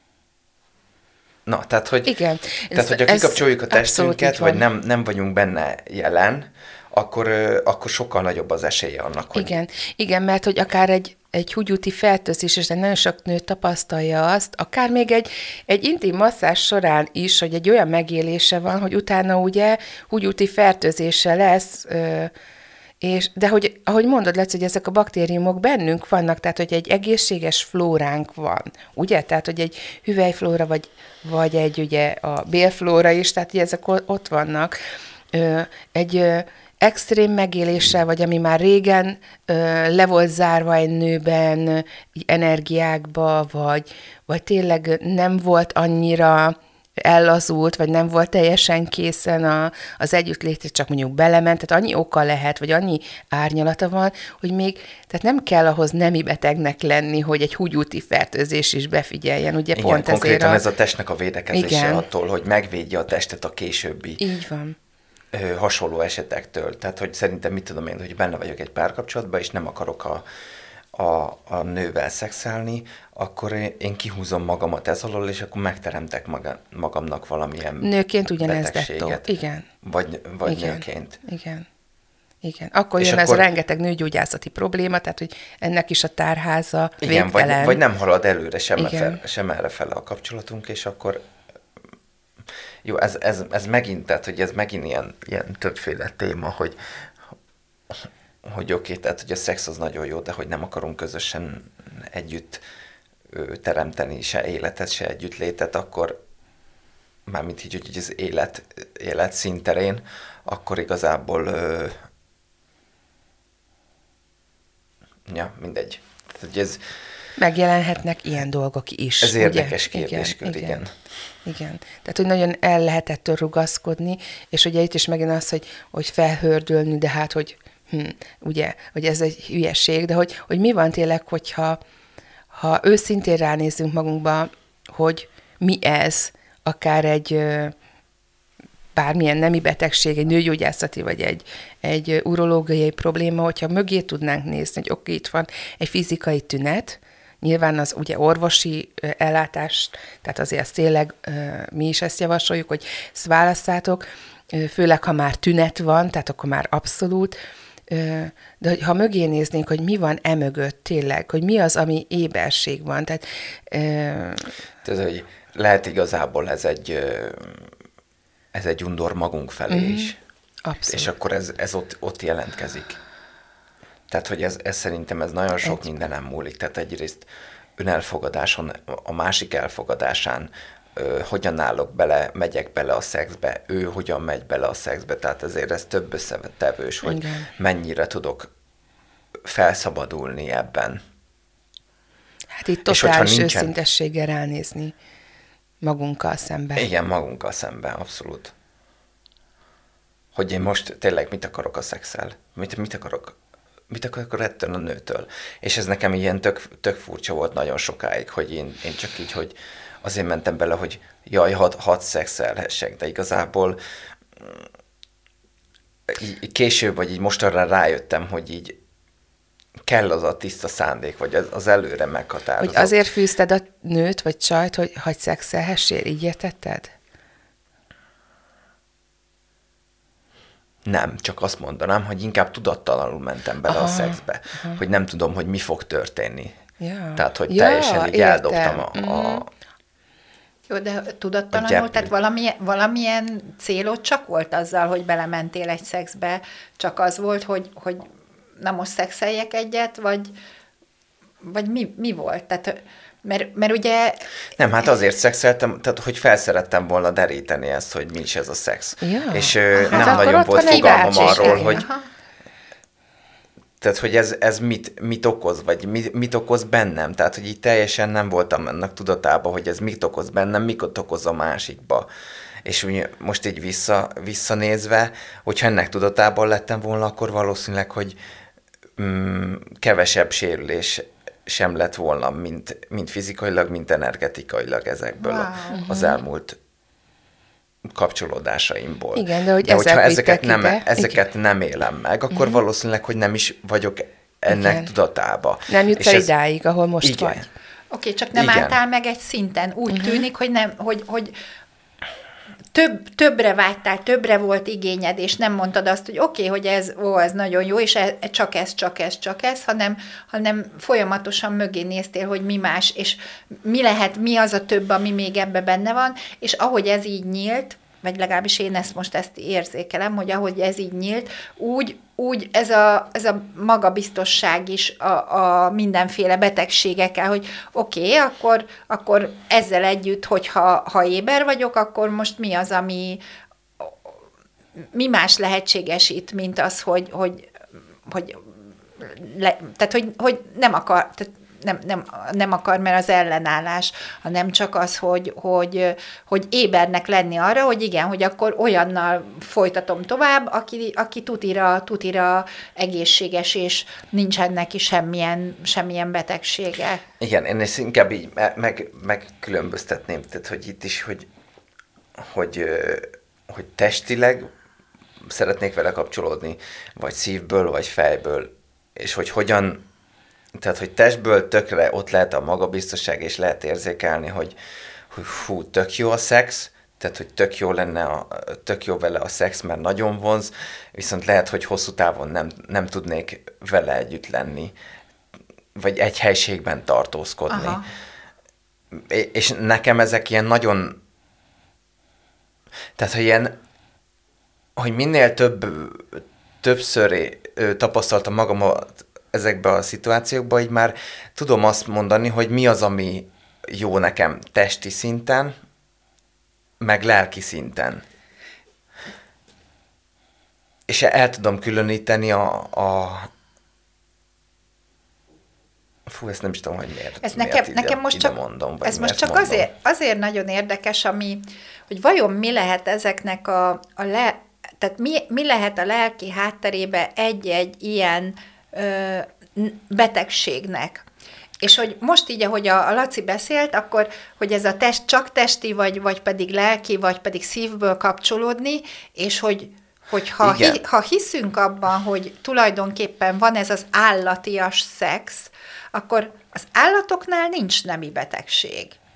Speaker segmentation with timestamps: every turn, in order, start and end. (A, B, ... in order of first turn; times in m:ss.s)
0:01.5-0:02.2 A
0:02.1-0:04.6 B
0:02.7-0:09.6 A
0:09.3-0:22.3 B
0:23.0-0:34.8 B
0:35.3-1:00.6 B
0:59.7-1:04.2 A
1:01.5-1:02.0 B
1:04.2-1:04.8 B
1:05.3-1:10.2 A
1:10.9-1:19.3 A
1:17.8-1:19.7 B
1:19.8-1:21.2 A
1:20.5-1:21.7 B
1:22.4-1:27.8 B
1:23.0-1:23.4 A
1:27.0-1:31.2 A
1:28.8-1:29.2 B
1:32.8-1:36.8 A
1:37.9-1:42.6 A
1:43.3-1:46.2 A
1:47.3-1:52.0 A
1:55.3-1:56.8 A
1:57.4-2:00.8 B
1:59.2-2:00.9 A
2:01.4-2:11.8 B
2:12.5-2:17.7 B
2:19.0-2:37.4 B
2:37.9-2:44.5 B
2:44.8-2:47.7 A
2:48.5-2:50.2 A
2:49.7-2:50.1 B
2:50.6-2:51.1 B
2:50.9-2:53.0 A
2:54.1-3:08.5 A
3:07.0-3:07.5 B
3:09.4-3:11.0 A
3:12.5-3:14.9 B
3:12.9-3:13.7 A
3:15.8-3:16.9 B
3:16.8-3:18.5 A
3:20.4-3:23.4 A
3:23.9-3:33.8 A
3:34.4-3:34.7 A
3:36.1-3:38.8 A
3:39.8-3:43.0 A
3:42.6-3:46.9 B
3:50.9-3:56.6 A
3:53.7-3:54.8 B
3:56.8-3:59.5 B
3:57.2-3:59.5 A
4:00.7-4:10.3 C
4:01.5-4:02.1 A
4:11.4-4:14.3 C
4:14.6-4:21.8 A
4:19.0-4:21.8 B
4:19.7-4:22.0 C
4:23.8-4:32.1 A
4:32.6-4:38.2 A
4:39.0-4:46.6 A
4:45.2-4:45.8 C
4:45.7-4:46.2 B
4:47.9-4:56.3 A
4:49.2-4:51.2 B
4:52.3-4:52.6 B
4:54.5-4:54.9 B
4:55.7-4:57.5 B
4:57.0-4:57.5 A
4:57.9-5:01.4 C
4:58.4-4:58.8 A
4:59.9-5:00.2 B
5:02.7-5:33.2 C
5:34.9-5:37.5 C
5:38.1-5:38.4 C
5:39.0-5:57.0 C
5:57.2-6:01.3 A
6:02.2-6:04.5 A
6:05.2-6:09.8 A
6:10.6-6:14.6 A
6:15.1-6:24.8 A
6:25.8-6:27.8 A
6:27.5-6:27.9 C
6:28.9-6:31.0 A
6:33.0-6:33.6 A
6:34.8-6:45.5 A
6:46.8-6:48.0 A
6:50.9-6:53.3 A
6:56.1-6:59.7 A
6:57.2-7:11.0 C
7:11.6-7:29.0 C
7:20.4-7:20.8 A